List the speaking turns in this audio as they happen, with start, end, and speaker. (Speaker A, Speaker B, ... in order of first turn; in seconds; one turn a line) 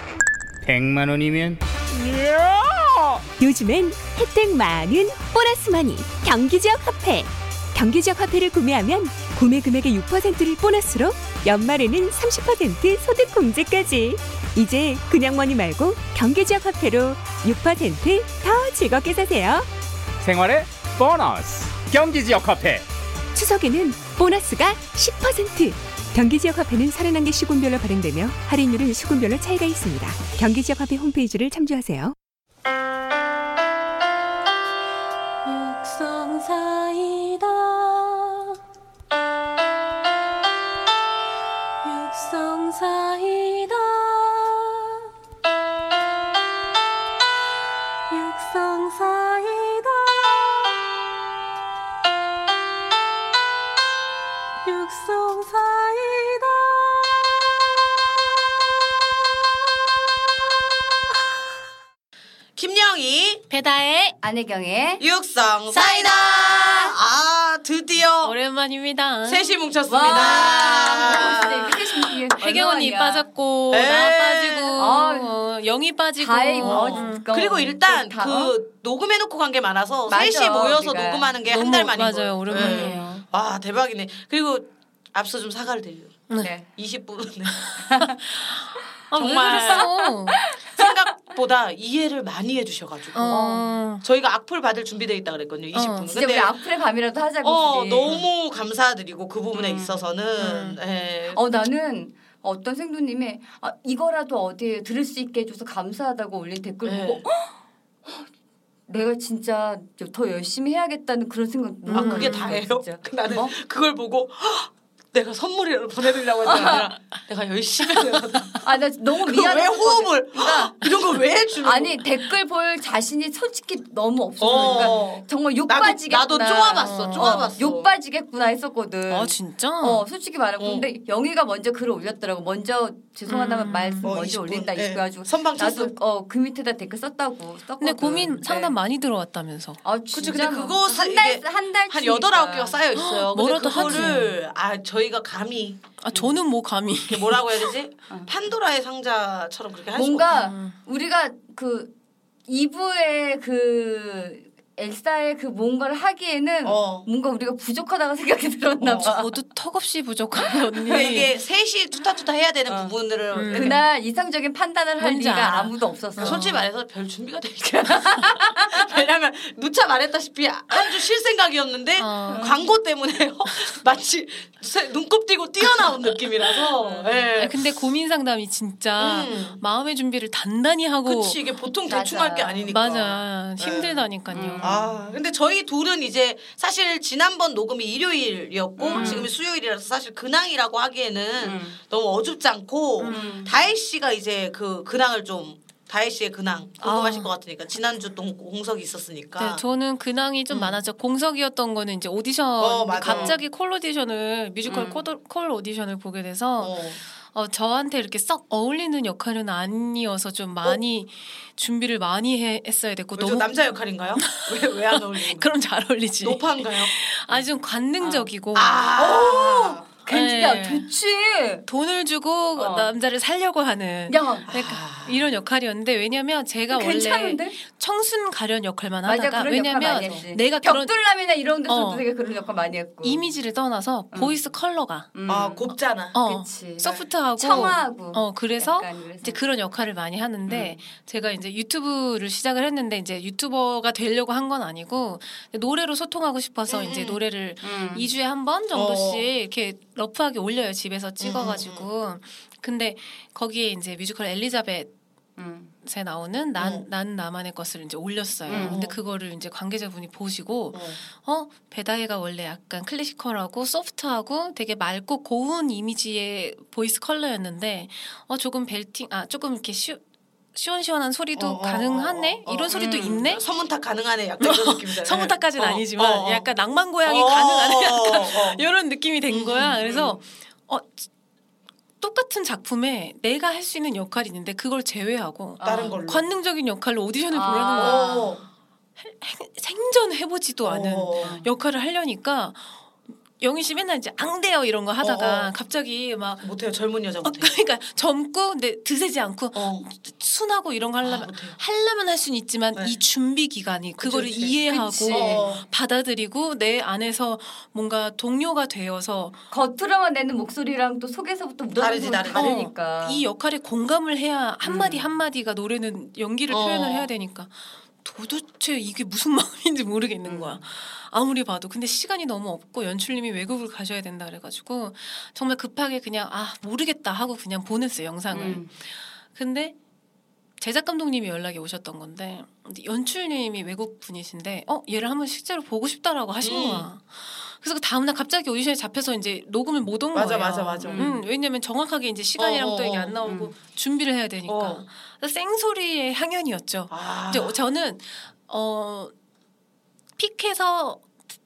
Speaker A: 0.6-3.2
Speaker B: 3.4-19.7
Speaker A: 20.2-22.9
Speaker B: 23.3-32.2
Speaker C: 35.4-38.5
Speaker C: 41.8-45.0
Speaker C: 48.1-50.8
Speaker C: 54.6-57.5
Speaker D: 62.6-63.4
Speaker C: 63.5-64.2
Speaker E: 64.2-65.0
Speaker D: 65.0-68.4
Speaker E: 65.7-66.8
Speaker C: 65.9-66.7
Speaker C: 68.2-71.7
Speaker D: 69.2-72.0
Speaker E: 69.9-73.3
Speaker C: 72.4-77.2
Speaker D: 73.7-74.8
Speaker E: 74.8-75.4
Speaker E: 76.2-78.5
Speaker D: 76.6-86.2
Speaker E: 80.1-81.3
Speaker C: 81.5-83.2
Speaker E: 82.5-83.2
Speaker E: 86.4-86.7
Speaker D: 86.8-87.8
Speaker C: 87.8-90.4
Speaker E: 87.8-88.2
Speaker D: 89.1-89.9
Speaker E: 89.7-91.0
Speaker D: 90.7-93.4
Speaker C: 93.1-94.0
Speaker E: 93.3-93.8
Speaker D: 94.0-96.5
Speaker C: 95.7-96.1
Speaker E: 96.1-98.2
Speaker D: 97.4-101.4
Speaker E: 99.5-100.0
Speaker C: 100.4-100.8
Speaker E: 101.3-108.3
Speaker D: 106.8-107.2
Speaker E: 108.9-113.5
Speaker C: 111.9-112.6
Speaker D: 111.9-118.6
Speaker E: 116.4-116.9
Speaker E: 118.6-120.8
Speaker D: 119.2-122.1
Speaker E: 121.6-138.8
Speaker D: 124.4-127.9
Speaker C: 124.5-125.0
Speaker C: 126.8-127.5
Speaker C: 129.1-130.0
Speaker D: 130.6-130.9
Speaker C: 133.3-134.1
Speaker D: 134.0-135.9
Speaker C: 137.8-139.8
Speaker E: 139.8-142.8
Speaker D: 140.1-146.2
Speaker C: 142.9-144.3
Speaker E: 143.8-144.2
Speaker C: 146.0-147.7
Speaker D: 147.1-150.3
Speaker E: 149.9-151.9
Speaker C: 150.3-150.8
Speaker E: 152.5-159.3
Speaker D: 156.6-157.1
Speaker D: 158.8-159.2
Speaker C: 159.0-161.3
Speaker E: 160.7-161.1
Speaker D: 160.9-163.8
Speaker E: 162.7-162.9
Speaker C: 163.3-163.8
Speaker E: 163.5-166.4
Speaker C: 165.0-166.6
Speaker D: 166.2-177.6
Speaker E: 167.8-168.9
Speaker C: 172.0-172.5
Speaker E: 172.3-172.6
Speaker C: 175.6-176.3
Speaker E: 176.8-177.2
Speaker C: 177.4-181.4
Speaker D: 179.0-179.6
Speaker D: 181.1-184.0
Speaker E: 181.9-182.7
Speaker C: 182.7-184.7
Speaker E: 184.3-184.9
Speaker D: 184.6-199.6
Speaker E: 188.8-189.3
Speaker C: 188.9-189.3
Speaker E: 191.4-191.8
Speaker C: 193.0-193.4
Speaker E: 193.1-193.5
Speaker C: 196.8-197.3
Speaker C: 199.4-213.5
Speaker D: 200.5-200.8
Speaker D: 202.6-203.4
Speaker E: 203.0-203.4
Speaker E: 204.7-205.0
Speaker D: 206.6-207.0
Speaker D: 213.2-215.5
Speaker C: 214.2-218.9
Speaker D: 216.2-217.4
Speaker D: 218.0-219.8
Speaker E: 219.0-221.7
Speaker C: 220.1-220.9
Speaker C: 221.7-230.9
Speaker E: 222.6-222.9
Speaker E: 224.1-224.5
Speaker D: 224.5-225.3
Speaker E: 226.7-227.6
Speaker E: 229.1-233.2
Speaker D: 229.9-230.2
Speaker C: 231.7-232.1
Speaker C: 233.0-235.1
Speaker E: 234.1-234.4
Speaker E: 235.1-239.4
Speaker D: 235.3-236.2
Speaker C: 236.1-254.9
Speaker D: 240.5-240.8
Speaker D: 246.7-247.2
Speaker E: 247.6-248.1
Speaker D: 248.7-249.3
Speaker D: 251.2-251.9
Speaker E: 255.4-255.7
Speaker C: 255.8-270.0
Speaker D: 256.6-256.9
Speaker E: 258.5-258.8
Speaker D: 258.5-259.0
Speaker D: 260.7-261.0
Speaker C: 270.5-273.4
Speaker D: 271.4-276.5
Speaker E: 272.7-273.2
Speaker C: 274.4-281.0
Speaker D: 277.1-278.6
Speaker D: 279.3-280.2
Speaker C: 282.0-288.3
Speaker E: 285.6-286.0
Speaker D: 285.6-286.2
Speaker E: 287.3-288.4
Speaker D: 287.8-288.4
Speaker C: 289.0-292.8
Speaker D: 290.6-291.4
Speaker E: 291.2-291.5
Speaker C: 293.4-296.4
Speaker D: 295.0-295.5
Speaker D: 296.4-297.6
Speaker C: 297.2-309.4
Speaker D: 299.6-299.9
Speaker D: 301.0-301.6
Speaker D: 302.8-303.0
Speaker D: 304.0-305.6
Speaker E: 304.6-305.5
Speaker E: 309.5-313.2
Speaker D: 311.8-312.7
Speaker C: 312.3-329.8
Speaker E: 314.7-315.0
Speaker D: 316.5-317.1
Speaker E: 320.2-320.6
Speaker E: 328.3-328.7
Speaker C: 330.6-349.1
Speaker D: 336.4-336.9
Speaker D: 340.1-341.2
Speaker E: 340.9-341.2
Speaker D: 342.4-343.2
Speaker E: 343.2-343.5
Speaker D: 344.5-344.8
Speaker D: 346.9-347.6
Speaker C: 350.2-351.1